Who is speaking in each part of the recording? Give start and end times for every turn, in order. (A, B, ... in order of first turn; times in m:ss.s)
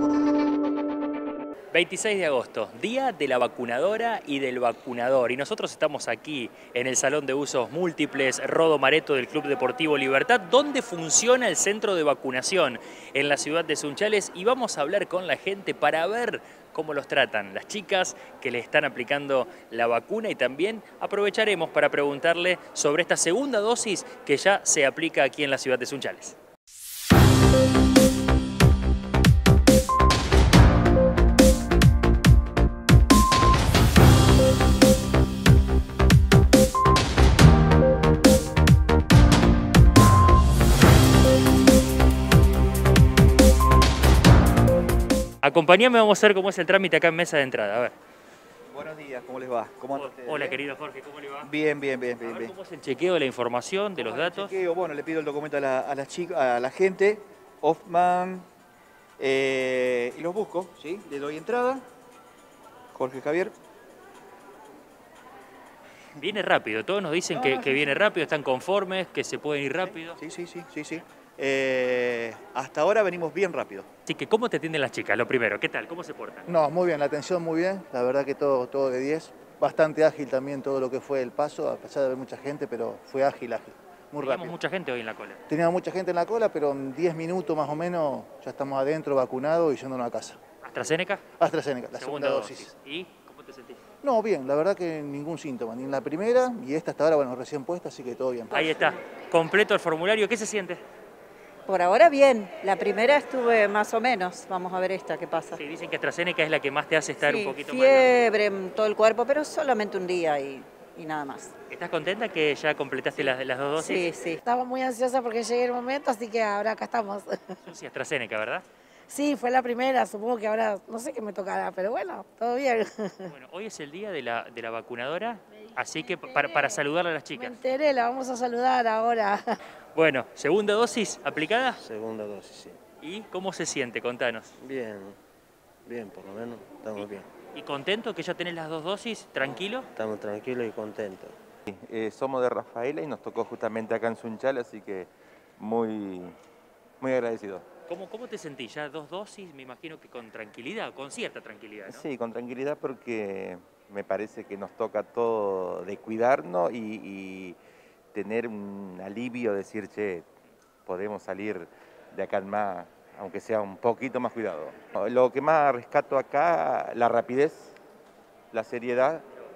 0:01.7-0:26.4 A
0:45.4-0:47.9 A
0:48.7-0:50.6 B
0:49.9-0:51.5 A
0:51.4-0:52.5 B
0:52.2-0:54.5 A
0:54.0-0:58.4 B
0:59.2-1:01.8 B
1:03.0-1:03.5 B
1:06.2-1:10.2 A
1:07.4-1:08.0 B
1:10.2-1:13.9 B
1:14.1-1:16.5 A
1:16.5-1:24.6 C
1:24.2-1:25.4 A
1:25.5-1:30.4 C
1:30.6-1:31.2 A
1:31.4-1:32.7 C
1:32.0-1:33.8 A
1:34.0-1:38.6 C
1:38.5-1:38.9 D
1:38.5-1:40.8 A
1:41.7-1:45.6 D
1:45.6-1:48.2 A
1:47.2-1:51.5 D
1:51.7-1:54.1 A
1:53.2-1:54.4 D
1:54.5-1:57.6 E
1:57.6-1:58.6 A
1:59.1-2:03.3 E
2:03.3-2:07.6 A
2:06.3-2:06.8 E
2:07.3-2:09.6 E
2:10.0-2:11.8 A
2:11.8-2:12.7 F
2:13.0-2:14.5 A
2:14.6-2:15.1 F
2:15.9-2:17.1 F
2:17.5-2:19.9 A
2:20.0-2:20.9 F
2:21.7-2:26.3 G
2:27.0-2:27.7 G
2:27.9-2:32.0 A
2:31.9-2:37.6 G
2:38.1-2:40.3 G
2:40.8-2:47.8 G
2:48.5-2:49.2 G